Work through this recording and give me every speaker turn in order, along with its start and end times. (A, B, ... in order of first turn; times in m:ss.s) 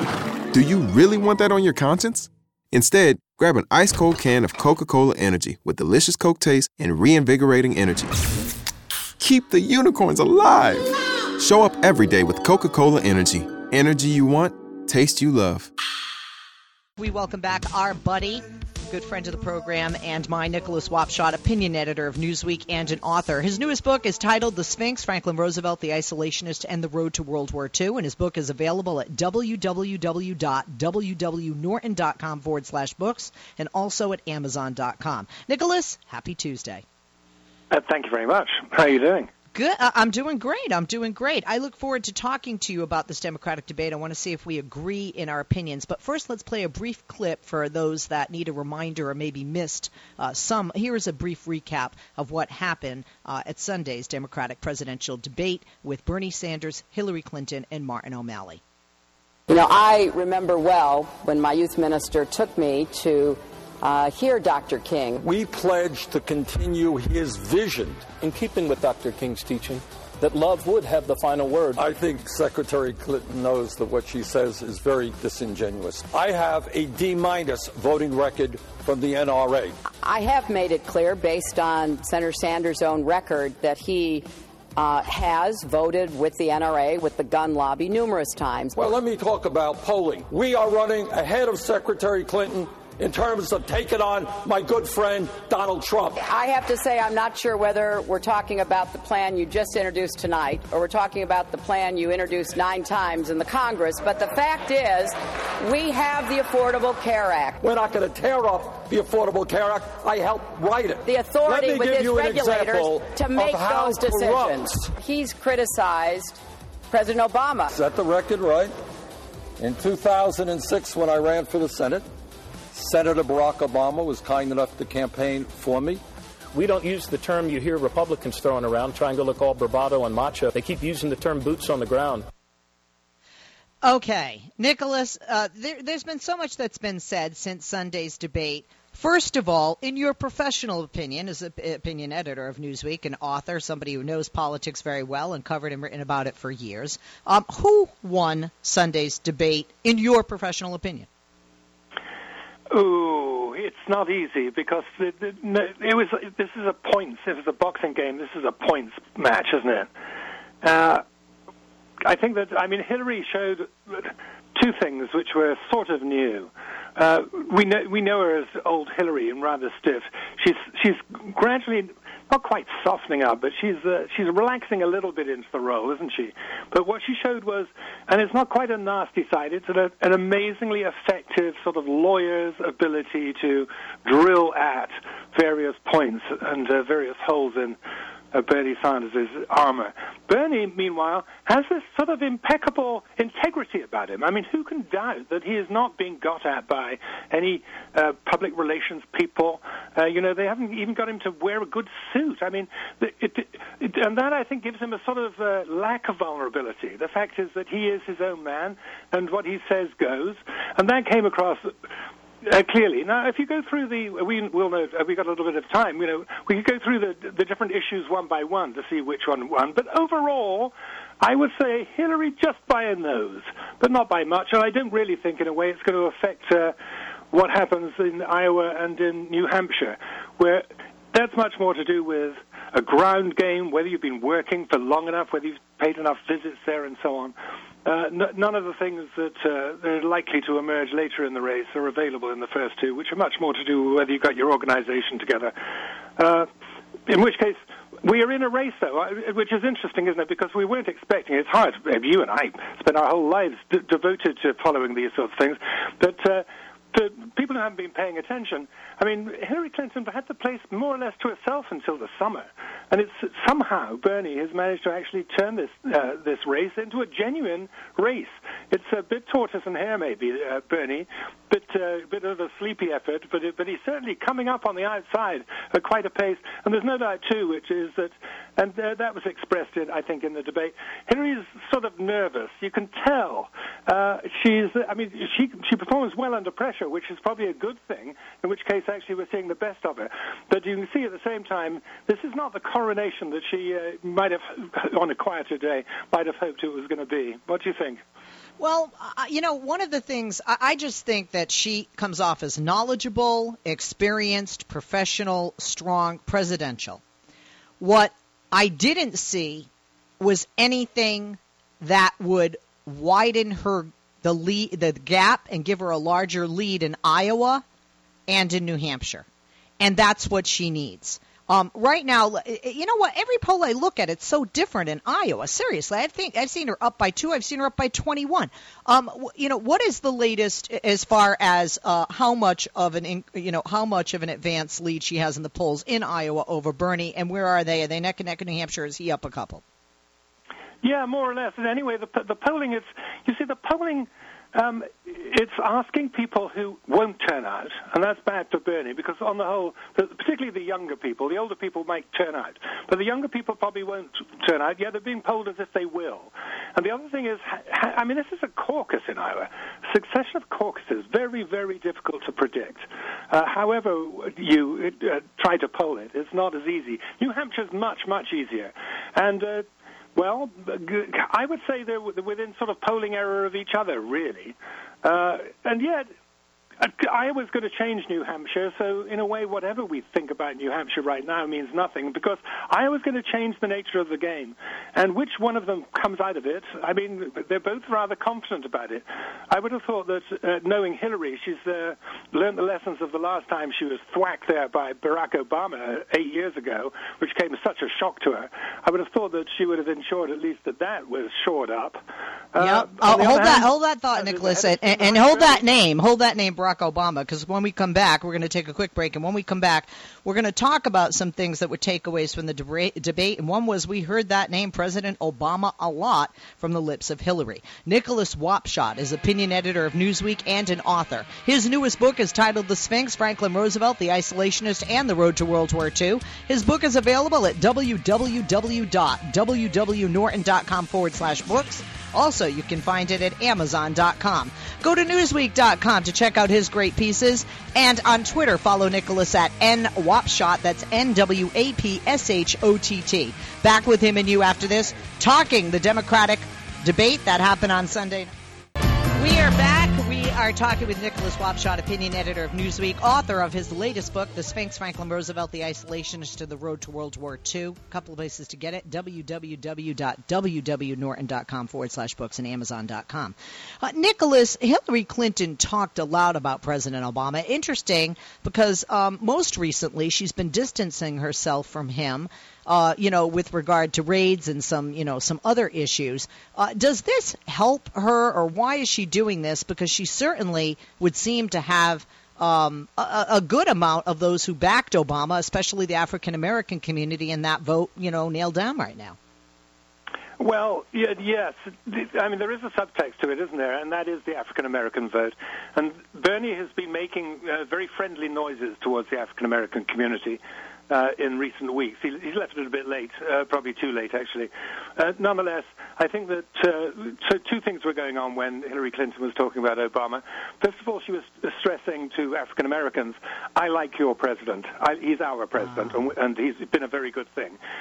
0:00.5-0:08.2 A
0:09.2-0:15.7 A
0:17.0-0:36.8 B
0:37.7-0:39.3 C
0:39.5-0:58.6 B
0:59.5-1:05.2 D
1:05.2-1:08.2 E
1:08.2-1:11.8 F
1:11.8-1:19.8 E
1:20.0-1:28.9 D
1:28.8-1:36.2 E
1:36.2-1:47.6 D
1:47.6-1:54.9 E
1:51.0-1:57.7 D
1:57.7-1:58.7 E
1:59.6-2:02.0 E
2:02.7-2:06.0 E
2:06.5-2:12.2 F
2:13.8-2:31.1 B
2:32.7-2:39.9 C
2:40.6-2:41.0 C
2:42.0-3:07.8 C
3:08.3-3:31.7 C
3:32.4-3:46.7 C
3:47.3-3:57.3 C
3:57.8-4:05.5 C
4:06.2-4:06.5 C
4:07.1-4:58.0 C
4:58.6-5:07.0 B
5:07.8-5:09.7 B
5:10.2-5:17.6 B
5:18.3-5:19.2 B
5:19.8-5:39.6 B
5:40.8-6:16.1 C
6:16.8-6:45.6 C
6:42.6-7:28.3 B
7:29.1-8:09.2 B
8:10.4-8:37.6 C